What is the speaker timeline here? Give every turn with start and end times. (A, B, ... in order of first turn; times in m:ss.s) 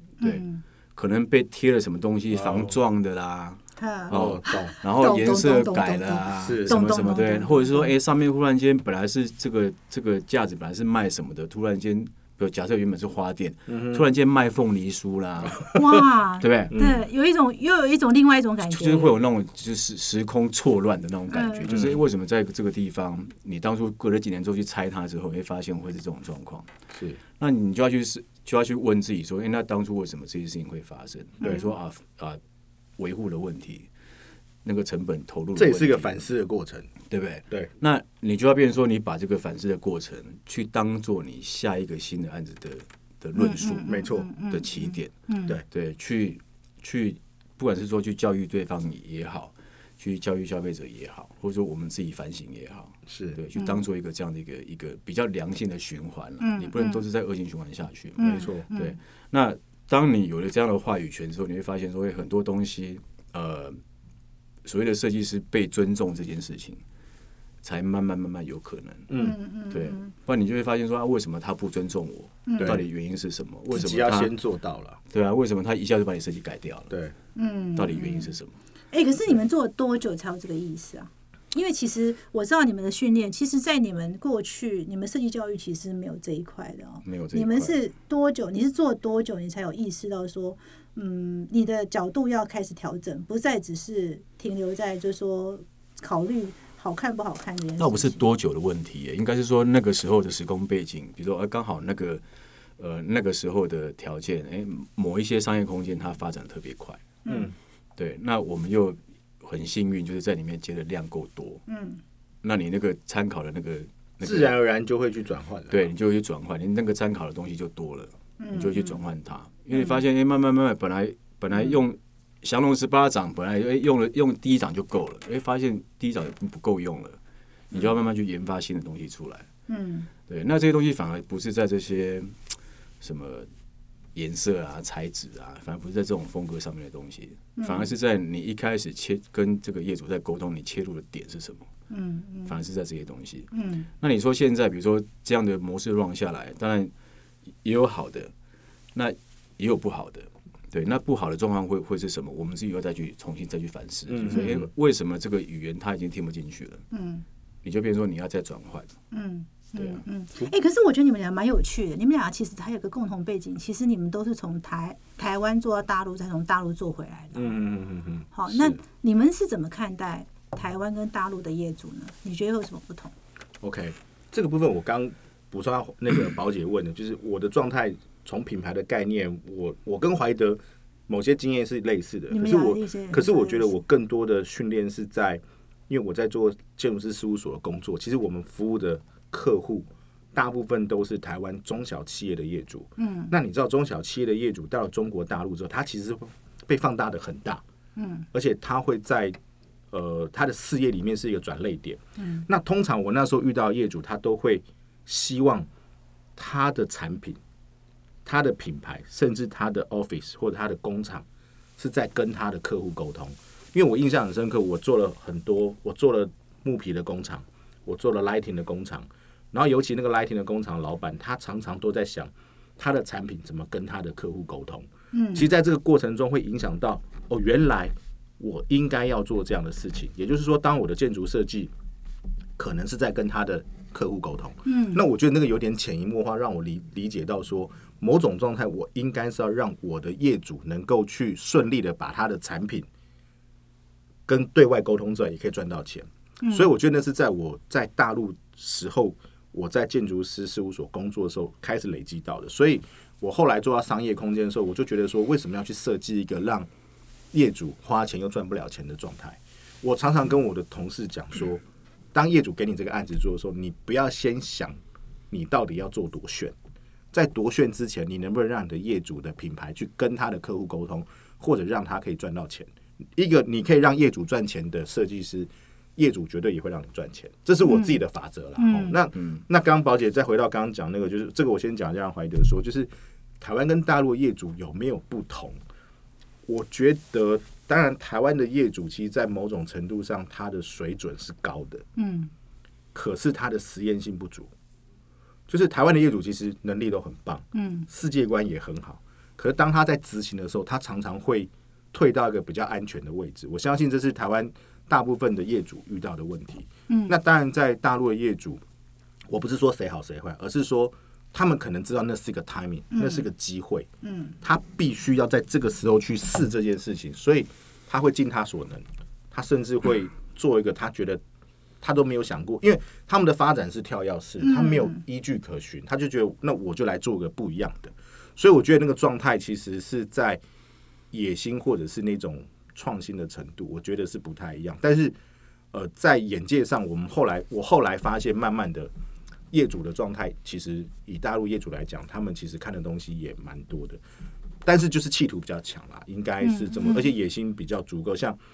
0:00.2-0:00.6 A
0:00.2-0:15.7 B
0:02.3-0:02.8 C
0:03.8-0:07.9 A
0:04.1-0:04.7 C
0:06.4-0:06.8 C
0:13.7-0:14.1 C
0:15.5-0:16.0 C
0:15.7-0:19.1 A
0:16.4-0:16.8 B
0:16.7-0:17.0 C
0:18.7-0:26.7 B
0:21.3-0:21.7 A
0:21.7-0:22.0 C
0:26.9-0:27.2 C
0:27.4-0:32.4 B
0:31.4-0:31.7 A
0:33.0-0:33.9 B
0:34.6-0:36.2 B
0:35.6-0:36.9 C
0:37.1-0:43.9 B
0:43.4-0:45.6 A
0:43.9-0:44.3 C
0:44.5-0:45.1 B
0:45.7-1:03.8 B
0:53.1-0:53.4 C
0:53.6-0:53.8 A
0:56.4-0:57.0 A
0:58.2-0:59.0 A
0:58.2-0:58.7 C
1:04.6-1:06.8 B
1:07.6-1:09.2 B
1:09.1-1:09.4 C
1:09.2-1:10.1 A
1:09.7-1:14.3 B
1:12.5-1:12.8 A
1:12.6-1:12.8 C
1:13.7-1:15.0 C
1:15.1-1:16.9 B
1:16.9-1:17.2 C
1:17.4-1:18.3 A
1:17.8-1:18.5 B
1:18.9-1:38.2 A
1:27.0-1:27.8 B
1:37.8-1:42.2 B
1:42.8-1:47.0 B
1:47.3-1:47.6 C
1:48.0-1:51.6 B
1:51.7-1:52.0 A
1:52.4-1:54.6 B
1:54.2-1:55.9 C
1:55.7-2:07.2 B
1:58.4-1:59.0 A
2:07.7-2:09.5 B
2:09.7-2:10.1 A
2:10.3-2:12.4 B
2:13.0-2:13.5 B
2:14.2-2:21.7 B
2:17.6-2:17.9 A
2:21.9-2:22.6 A
2:22.5-2:26.9 B
2:23.5-2:23.9 A
2:27.6-2:28.3 B
2:29.0-2:36.8 B
2:34.1-2:34.7 C
2:34.3-2:34.6 A
2:36.9-2:37.2 A
2:37.6-2:39.0 B
2:39.1-2:47.5 A
2:47.4-2:48.8 C
2:48.3-2:53.1 A
2:53.6-3:17.6 C
3:02.3-3:03.8 A
3:13.0-3:13.3 A
3:18.0-3:18.3 A
3:18.3-3:19.4 C
3:19.9-3:25.7 C
3:22.2-3:22.5 A
3:26.4-3:27.4 C
3:28.2-3:31.2 C
3:31.8-3:51.7 C
3:45.1-3:45.5 A
3:52.6-4:02.9 C
3:54.6-3:55.0 A
4:04.3-4:16.7 C
4:06.4-4:06.7 A
4:17.3-4:21.6 C
4:22.1-4:24.8 C
4:25.3-4:26.6 C
4:27.1-4:45.6 C
4:37.6-4:38.0 A
4:38.6-4:39.0 A
4:46.5-4:51.8 C
4:52.0-4:52.3 A
4:52.9-4:54.5 C
4:55.5-5:08.6 C
4:57.5-4:57.9 A
5:06.9-5:07.2 A
5:09.3-5:13.9 C
5:12.9-5:13.3 A
5:14.0-5:14.4 A
5:14.4-5:21.2 C
5:21.8-5:30.4 C
5:24.4-5:25.0 A
5:31.1-5:35.2 C
5:35.7-5:38.9 C
5:39.5-5:44.0 C
5:44.6-5:48.4 C
5:46.4-5:47.1 A